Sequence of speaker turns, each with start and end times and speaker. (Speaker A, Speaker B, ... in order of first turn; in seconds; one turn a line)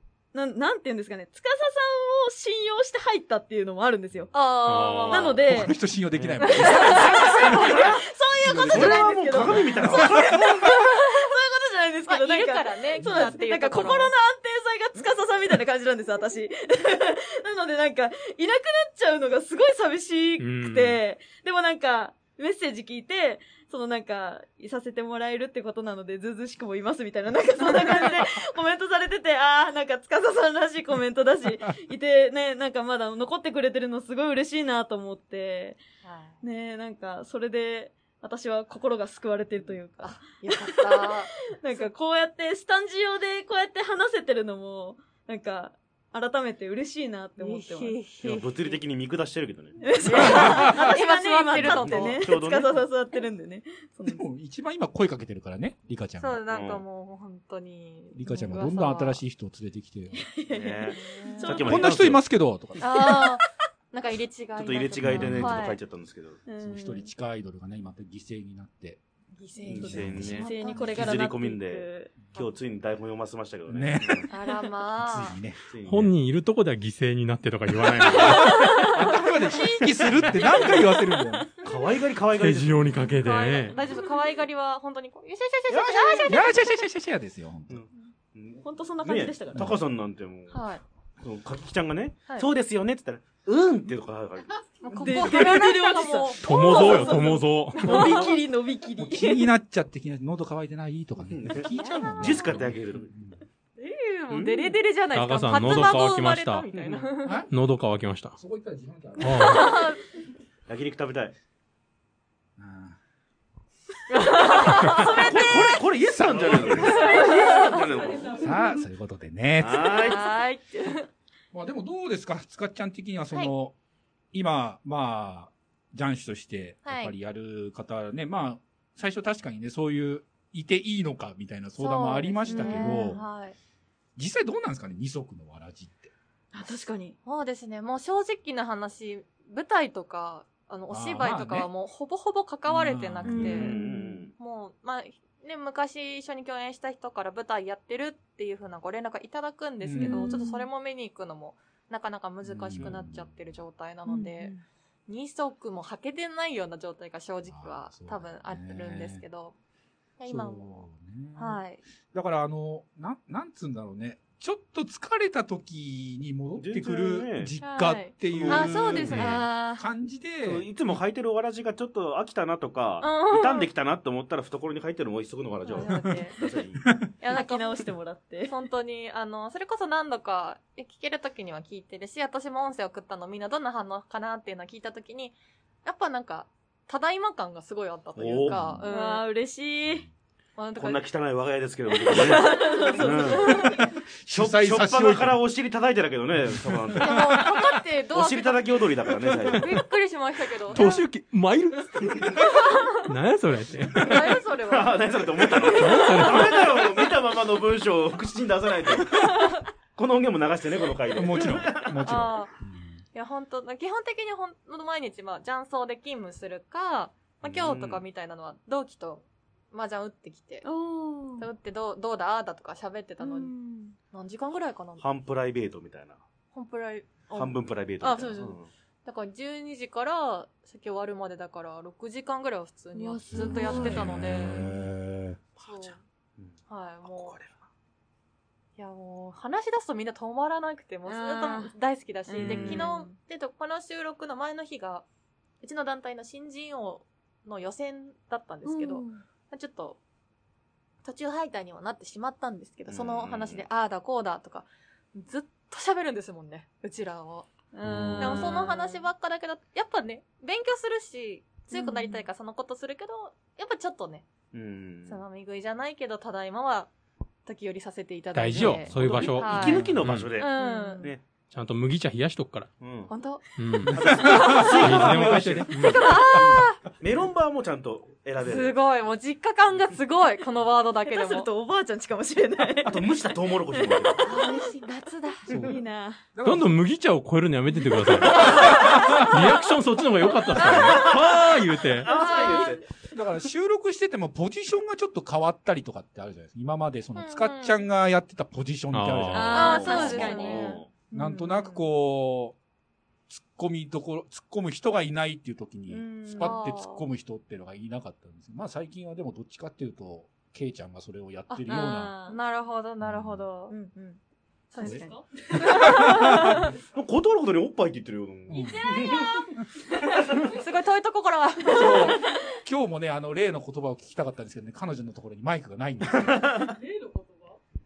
Speaker A: 0.3-4.3
Speaker B: 4.3-5.4
Speaker C: 4.6-5.3
Speaker A: 5.1-5.8
Speaker D: 5.4-7.2
Speaker E: 6.1-8.0
Speaker B: 6.4-8.0
Speaker A: 6.6-35.8
Speaker D: 8.4-10.0
Speaker E: 8.7-10.7
Speaker B: 12.1-14.1
Speaker D: 13.1-13.3
Speaker C: 20.4-21.0
Speaker B: 27.6-28.2
Speaker B: 36.0-36.4
Speaker A: 36.4-48.0
Speaker B: 40.0-41.9
Speaker B: 47.4-48.8
Speaker E: 48.2-50.5
Speaker A: 49.8-54.2
Speaker B: 50.0-52.4
Speaker D: 50.3-50.8
Speaker E: 51.5-52.8
Speaker D: 54.1-56.4
Speaker B: 56.2-59.2
Speaker E: 56.5-56.8
Speaker D: 58.1-60.3
Speaker A: 60.3-61.9
Speaker E: 60.5-62.2
Speaker B: 60.9-61.7
Speaker D: 61.6-63.3
Speaker B: 62.8-65.8
Speaker E: 64.5-66.4
Speaker D: 65.0-65.6
Speaker A: 65.2-65.5
Speaker A: 66.5-67.1
Speaker D: 66.6-69.0
Speaker B: 69.4-71.3
Speaker E: 69.6-74.3
Speaker D: 69.7-70.4
Speaker A: 69.7-72.2
Speaker D: 73.7-74.2
Speaker B: 74.3-75.4
Speaker D: 75.0-75.6
Speaker E: 75.7-76.1
Speaker C: 75.8-78.8
Speaker A: 78.2-79.2
Speaker D: 78.2-81.5
Speaker B: 78.3-79.7
Speaker E: 80.1-80.8
Speaker A: 80.4-81.4
Speaker E: 81.6-82.9
Speaker C: 82.3-83.8
Speaker B: 83.0-86.5
Speaker E: 85.7-86.5
Speaker D: 86.3-87.8
Speaker E: 87.7-90.6
Speaker A: 88.6-89.7
Speaker B: 90.5-90.8
Speaker E: 91.2-95.5
Speaker B: 94.8-98.3
Speaker A: 95.0-99.5
Speaker C: 96.4-97.9
Speaker E: 97.9-98.3
Speaker D: 99.0-103.4
Speaker E: 101.3-103.1
Speaker B: 102.2-102.5
Speaker B: 103.8-107.4
Speaker E: 104.3-104.8
Speaker C: 105.1-106.7
Speaker D: 107.2-107.5
Speaker C: 107.5-108.3
Speaker D: 108.3-109.7
Speaker C: 109.2-109.7
Speaker B: 109.5-110.0
Speaker A: 109.5-109.8
Speaker E: 110.7-111.3
Speaker D: 112.6-113.0
Speaker B: 114.1-115.5
Speaker E: 114.7-118.5
Speaker A: 115.0-115.6
Speaker D: 116.1-117.0
Speaker B: 116.8-117.9
Speaker A: 117.0-117.9
Speaker D: 118.3-120.0
Speaker E: 119.6-120.3
Speaker B: 119.8-121.1
Speaker D: 121.5-123.7
Speaker D: 124.3-133.2
Speaker B: 126.8-127.1
Speaker B: 131.8-133.6
Speaker A: 132.5-133.2
Speaker D: 134.2-136.1
Speaker A: 136.5-137.2
Speaker B: 137.2-154.5
Speaker D: 140.9-141.7
Speaker D: 142.7-143.7
Speaker A: 143.2-144.0
Speaker E: 143.3-144.3
Speaker D: 149.8-150.3
Speaker A: 150.0-150.7
Speaker D: 152.4-153.4
Speaker E: 152.8-153.0
Speaker A: 154.1-154.6
Speaker B: 155.1-159.5
Speaker D: 157.4-159.2
Speaker B: 160.2-161.8
Speaker D: 160.2-170.7
Speaker E: 166.5-167.6
Speaker B: 167.6-169.9
Speaker E: 168.2-169.4
Speaker E: 170.4-176.8
Speaker B: 173.0-173.7
Speaker B: 175.6-176.4
Speaker B: 177.2-177.9
Speaker A: 177.3-178.5
Speaker B: 178.4-189.3
Speaker E: 188.2-188.8
Speaker D: 188.5-188.9
Speaker A: 188.8-190.1
Speaker B: 190.6-191.1
Speaker E: 190.7-193.6
Speaker B: 192.0-193.9
Speaker A: 192.1-193.8
Speaker D: 194.2-195.4
Speaker E: 194.3-199.8
Speaker B: 197.0-198.9
Speaker B: 199.5-201.0
Speaker C: 200.7-202.0
Speaker E: 202.0-202.3
Speaker B: 202.4-203.1
Speaker C: 203.1-203.9
Speaker B: 203.9-206.6
Speaker E: 203.9-209.4
Speaker C: 205.7-206.4
Speaker B: 209.1-209.6
Speaker E: 209.9-212.2
Speaker D: 211.1-213.0
Speaker B: 212.0-212.5
Speaker B: 213.1-220.7
Speaker E: 217.4-218.0
Speaker A: 220.6-221.5
Speaker B: 221.4-223.5
Speaker A: 223.2-223.9
Speaker B: 224.1-225.0
Speaker E: 225.0-226.2
Speaker B: 226.5-234.7
Speaker A: 227.3-227.5
Speaker E: 227.3-228.7
Speaker A: 232.9-234.5
Speaker D: 233.3-235.4
Speaker E: 233.9-234.7
Speaker E: 235.6-237.6
Speaker B: 235.6-236.0
Speaker B: 236.7-237.4
Speaker B: 238.8-245.1
Speaker A: 241.0-241.7
Speaker A: 242.3-243.2
Speaker E: 242.4-242.9
Speaker B: 245.6-250.0
Speaker A: 248.6-249.2
Speaker B: 251.0-257.5
Speaker E: 252.9-253.6
Speaker A: 257.7-259.1
Speaker E: 257.8-258.6
Speaker B: 258.1-264.3
Speaker A: 261.7-262.2
Speaker E: 264.5-265.2
Speaker B: 265.1-266.9
Speaker B: 267.4-271.1
Speaker C: 268.3-270.4
Speaker D: 268.6-269.0
Speaker E: 269.0-271.2
Speaker A: 270.6-271.1
Speaker C: 271.5-272.7
Speaker E: 272.8-273.1
Speaker B: 273.1-273.4
Speaker C: 273.5-273.9
Speaker D: 273.9-275.5
Speaker E: 273.9-278.8
Speaker B: 274.1-275.1
Speaker C: 274.8-276.1
Speaker B: 275.7-276.9
Speaker B: 278.4-281.5
Speaker A: 281.0-284.7
Speaker E: 282.8-284.3
Speaker B: 284.2-285.6
Speaker D: 285.5-285.8
Speaker A: 285.5-286.3
Speaker D: 286.3-286.7
Speaker C: 286.4-288.5
Speaker A: 287.9-289.6
Speaker D: 288.3-289.2
Speaker B: 288.4-289.3
Speaker C: 289.2-292.1
Speaker A: 290.5-291.2
Speaker B: 290.6-291.1
Speaker E: 290.9-292.8
Speaker A: 292.0-292.8
Speaker B: 292.1-292.8
Speaker D: 293.1-300.4
Speaker B: 297.1-297.9
Speaker C: 298.9-299.5
Speaker A: 299.3-301.7
Speaker B: 299.4-301.8
Speaker E: 299.5-301.0
Speaker D: 301.1-302.6
Speaker D: 303.3-312.2
Speaker A: 305.9-306.6
Speaker B: 306.3-307.1
Speaker B: 311.5-313.8
Speaker A: 311.6-312.4
Speaker D: 313.0-313.4
Speaker A: 313.7-314.2
Speaker B: 314.7-316.7
Speaker A: 314.8-316.5
Speaker D: 316.0-316.5
Speaker E: 316.9-319.4
Speaker D: 318.5-318.9
Speaker A: 318.5-319.4
Speaker B: 320.0-322.2
Speaker D: 321.7-326.6
Speaker E: 326.1-326.7